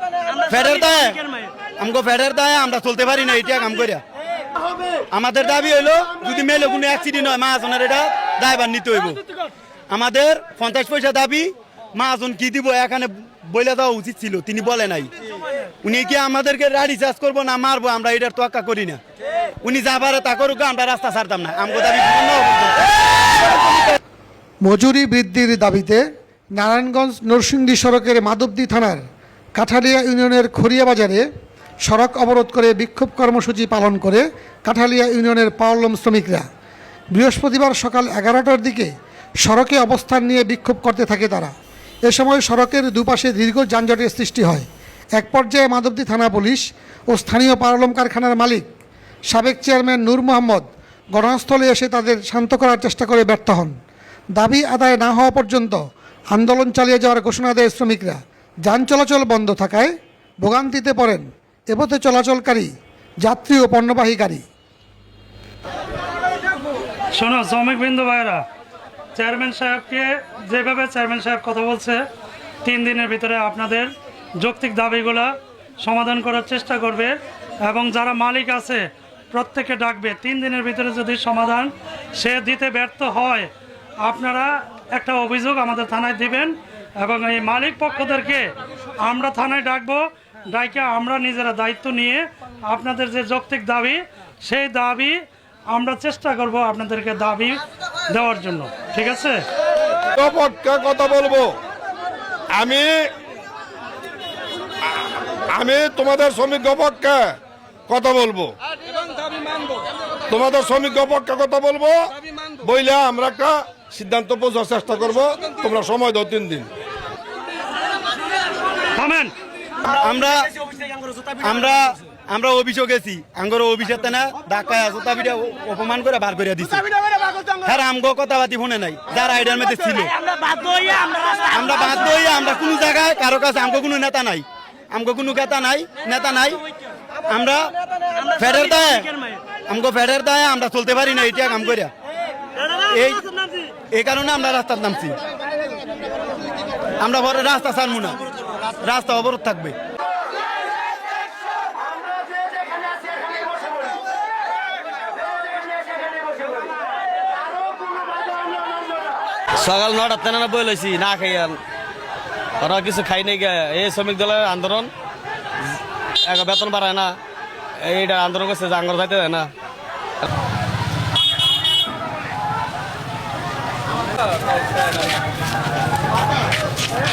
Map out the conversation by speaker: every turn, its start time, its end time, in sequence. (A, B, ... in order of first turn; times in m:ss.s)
0:00.4-0:01.2 A
0:01.8-0:04.0 A
0:05.1-0:09.2 A
0:09.9-0:15.1 A
0:15.8-0:19.0 A
0:19.6-0:22.8 A
0:24.6-0:26.0 B
0:26.6-0:29.0 B
0:29.6-0:31.2 B
0:31.9-0:36.4 B
0:37.1-0:38.9 B
0:39.4-0:41.5 B
0:42.1-0:48.6 B
0:49.3-0:53.7 B
0:54.4-0:55.8 B
0:56.3-1:02.7 B
1:03.2-1:04.4 B
1:07.2-1:08.4 C
1:09.2-1:12.0 C
1:12.6-1:17.1 C
1:17.7-1:23.5 C
1:24.0-1:35.2 C
1:35.7-1:39.4 C
1:40.1-1:41.6 D
1:42.6-1:43.0 D
1:45.5-1:47.4 D
1:47.9-1:48.5 D
1:50.3-1:56.7 D
1:58.9-1:59.3 C
1:59.8-2:00.4 A
2:01.4-2:06.8 A
2:07.6-2:10.1 A
2:11.2-2:16.6 A
2:17.3-2:17.7 A
2:18.3-2:19.1 A
2:19.7-2:21.9 A
2:22.9-2:23.3 A
2:23.9-2:25.2 A
2:27.0-2:28.2 A
2:28.8-2:29.8 A
2:39.6-2:41.6 E
2:42.6-2:44.9 E
2:46.2-2:47.2 E
2:47.8-2:49.5 E